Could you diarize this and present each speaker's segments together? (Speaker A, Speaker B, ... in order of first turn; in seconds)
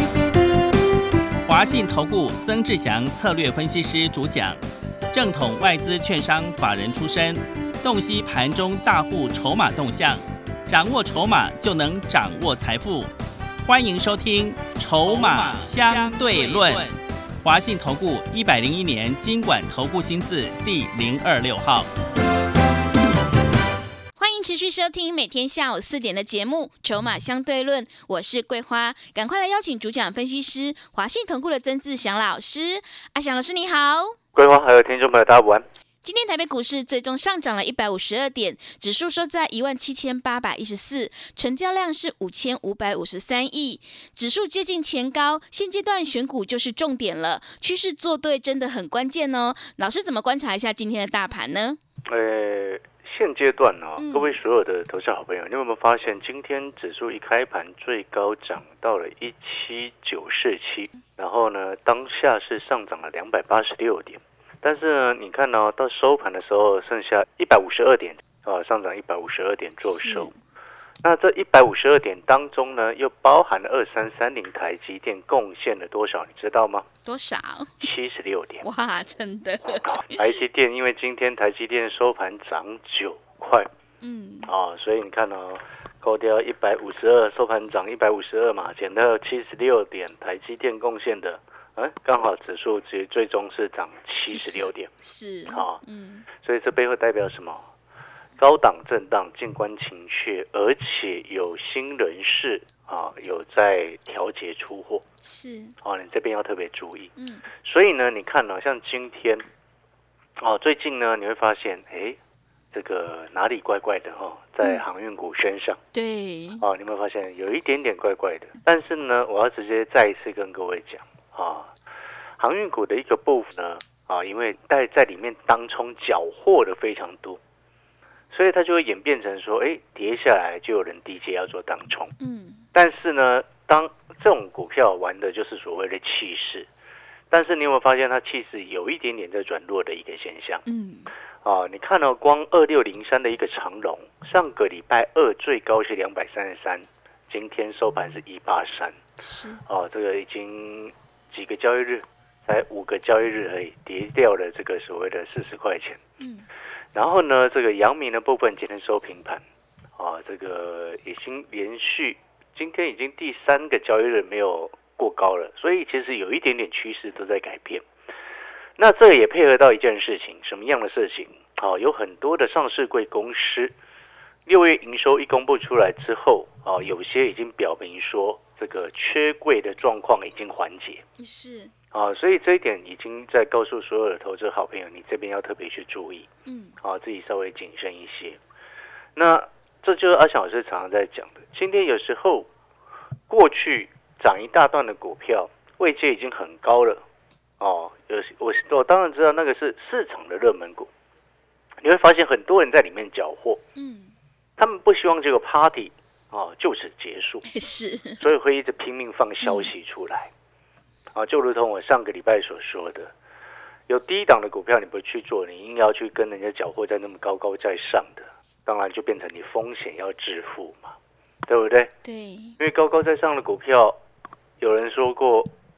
Speaker A: 1.5-4.6, 5.1-13.1, 13.6-21.9
Speaker B: 24.2-34.2, 36.0-51.8, 54.0-54.4, 69.9-70.3, 77.1-77.7, 78.6-80.3, 84.0-84.5, 94.3-96.3, 105.2-105.8, 107.2-107.5, 115.9-116.6, 132.2-132.7, 140.7-141.1, 149.2-149.6, 156.2-156.5, 181.2-181.7, 186.5-186.8, 203.8-204.1, 207.5-208.2, 209.4-209.7, 222.0-222.6
Speaker C: 34.3-35.6, 52.1-70.3, 71.0-76.9, 77.8-78.7, 79.7-83.7, 84.5-94.9, 95.5-95.8, 96.4-97.6, 98.4-105.0, 105.8-109.4, 110.4-112.2, 112.7-115.8, 116.6-121.7, 122.4-127.4, 128.3-132.1, 132.7-136.7, 137.3-140.6, 141.4-149.0, 149.7-156.0, 156.9-159.4, 160.0-167.8, 168.8-173.7, 174.5-181.0, 181.9-186.3, 186.8-188.4, 189.2-192.5, 193.3-197.0, 197.6-200.9, 201.8-203.6, 204.6-207.5, 208.2-210.3, 211.2-213.1, 213.9-220.9, 221.5-221.9, 222.6-224.0, 224.6-225.5